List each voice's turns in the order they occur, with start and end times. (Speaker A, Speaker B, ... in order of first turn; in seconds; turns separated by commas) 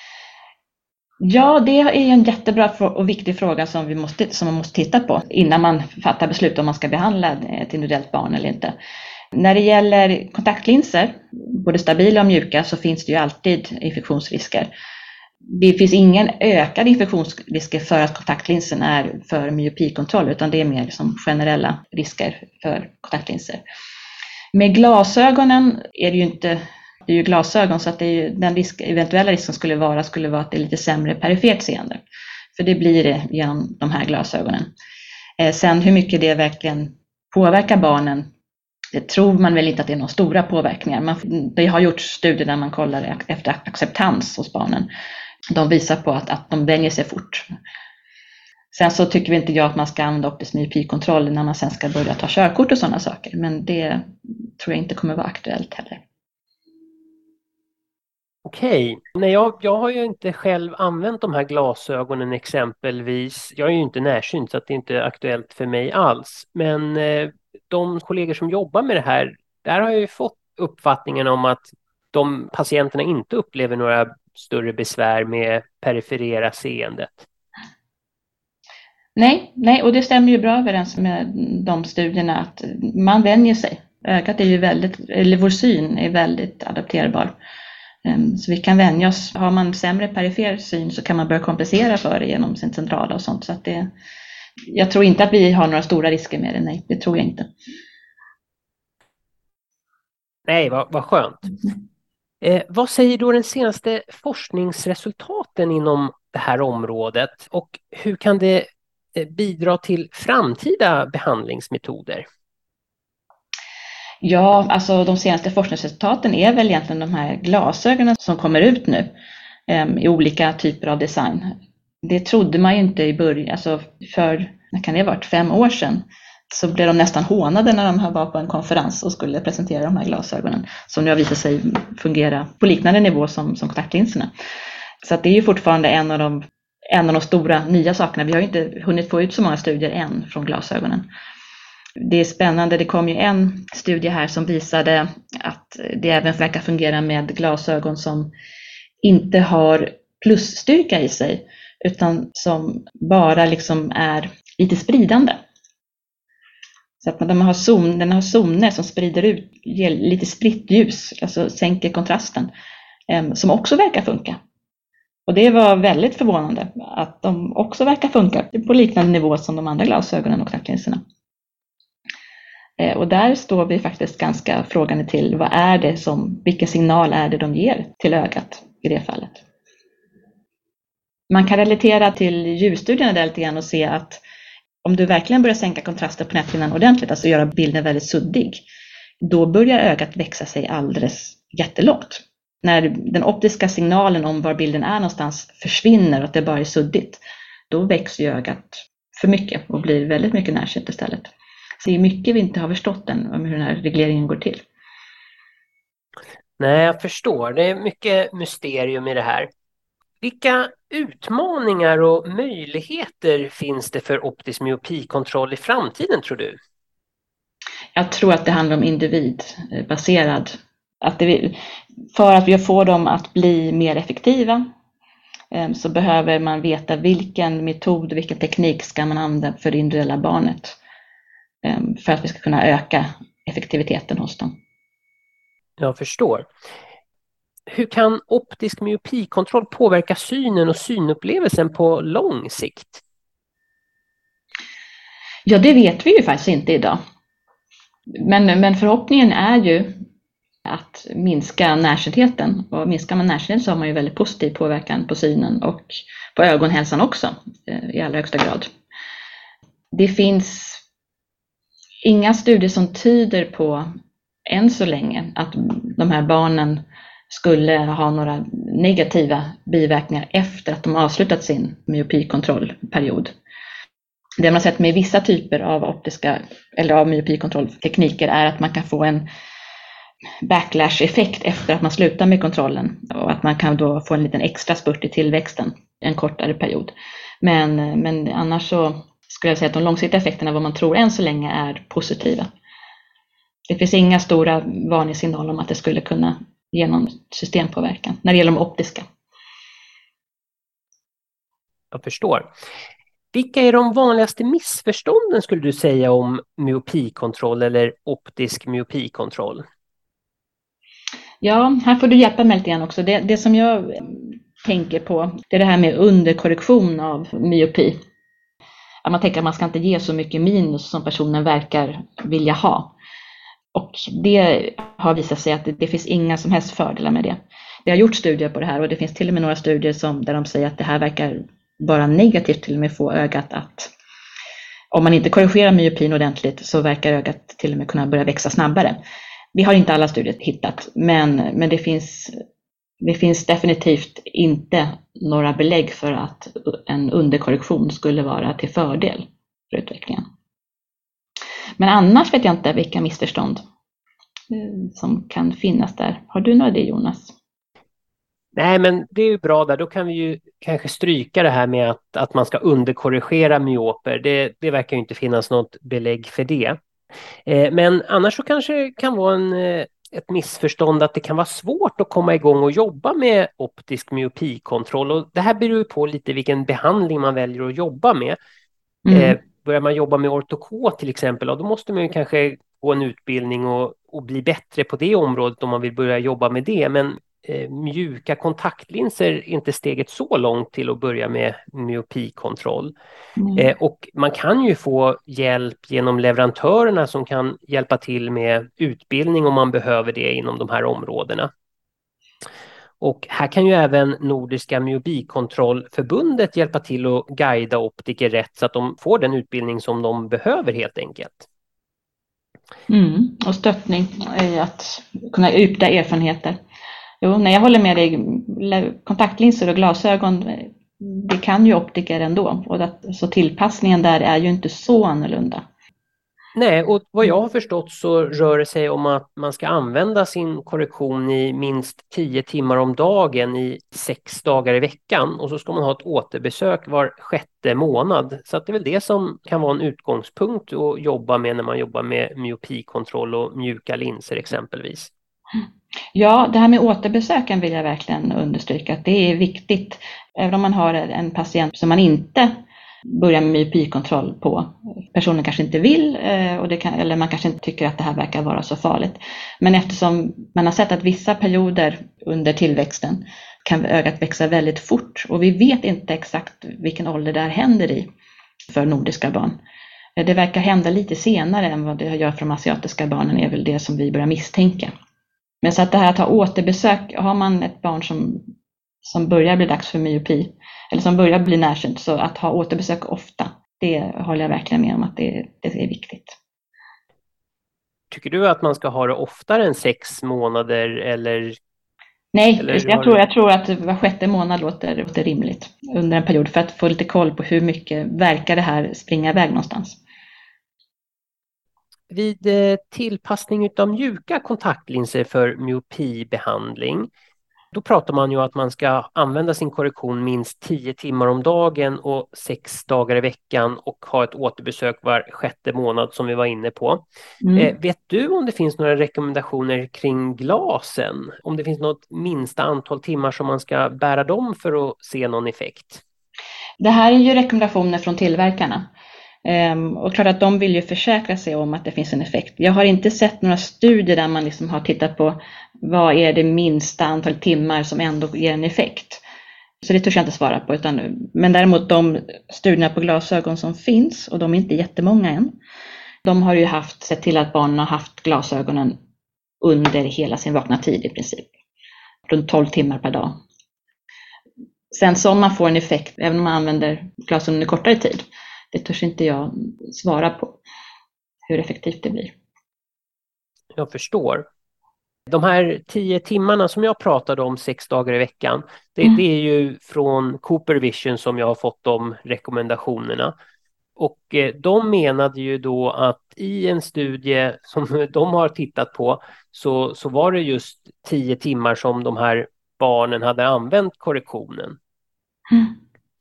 Speaker A: 1.2-8.7, Speaker A: 9.3-14.7, Speaker A: 15.5-23.6, Speaker A: 24.5-32.0, Speaker A: 32.5-34.7, Speaker A: 35.4-38.3, Speaker A: 38.9-44.9, Speaker A: 45.5-47.4, Speaker A: 48.7-56.0, Speaker B: 58.4-77.3, Speaker A: 79.2-87.3, Speaker A: 88.0-93.9, Speaker A: 94.7-97.5, Speaker B: 100.5-101.5, Speaker B: 102.4-112.2, Speaker A: 114.2-119.1, Speaker A: 119.7-134.3, Speaker A: 135.0-141.1, Speaker A: 142.0-148.3, Speaker A: 149.0-155.4, Speaker A: 157.0-162.5, Speaker A: 163.1-164.4, Speaker A: 165.3-171.0, Speaker A: 172.8-179.4, Speaker A: 181.3-184.2, Speaker A: 184.8-188.6, Speaker A: 189.2-204.6, Speaker B: 206.6-209.5, Speaker B: 210.2-216.6, Speaker A: 217.9-221.5, Speaker A: 222.1-224.6, Speaker A: 225.5-230.8, Speaker A: 231.6-234.6, Speaker B: 235.8-236.5, Speaker B: 237.7-243.0, Speaker A: 245.4-247.0, Speaker A: 248.2-249.9, Speaker A: 250.7-258.7, Speaker A: 259.9-260.8, Speaker A: 262.0-263.9, Speaker A: 264.5-273.3, Speaker A: 274.4-279.2, Speaker A: 280.4-292.5, Speaker A: 293.7-299.0, Speaker B: 301.9-302.5, Speaker B: 303.3-309.6, Speaker A: 311.4-318.0, Speaker A: 319.0-322.9, Speaker A: 323.7-333.9, Speaker A: 334.9-339.0, Speaker A: 339.5-342.3, Speaker A: 343.0-350.2, Speaker A: 351.8-353.6, Speaker A: 354.5-357.3, Speaker B: 358.5-366.8, Speaker B: 367.4-378.4, Speaker A: 379.1-379.4, Speaker B: 379.1-392.9, Speaker A: 393.4-393.7, Speaker B: 393.5-401.5, Speaker B: 403.0-411.5, Speaker A: 412.9-416.6, Speaker A: 417.2-425.6, Speaker B: 426.5-445.1, Speaker A: 446.1-452.5, Speaker A: 453.1-468.1, Speaker A: 468.7-469.6, Speaker A: 470.2-474.9, Speaker A: 475.6-478.4, Speaker A: 479.0-486.4, Speaker B: 488.1-491.6, Speaker A: 492.3-500.0, Speaker B: 492.6-493.2, Speaker B: 502.1-507.1, Speaker B: 507.7-517.0, Speaker A: 517.4-517.7, Speaker B: 517.5-526.0, Speaker A: 526.8-528.9, Speaker A: 529.4-539.2, Speaker A: 539.8-545.5, Speaker A: 546.2-549.0, Speaker A: 549.6-551.5, Speaker A: 552.3-553.4, Speaker A: 554.9-560.6, Speaker A: 561.5-562.3, Speaker B: 563.7-564.5, Speaker B: 565.3-573.3, Speaker B: 574.0-584.8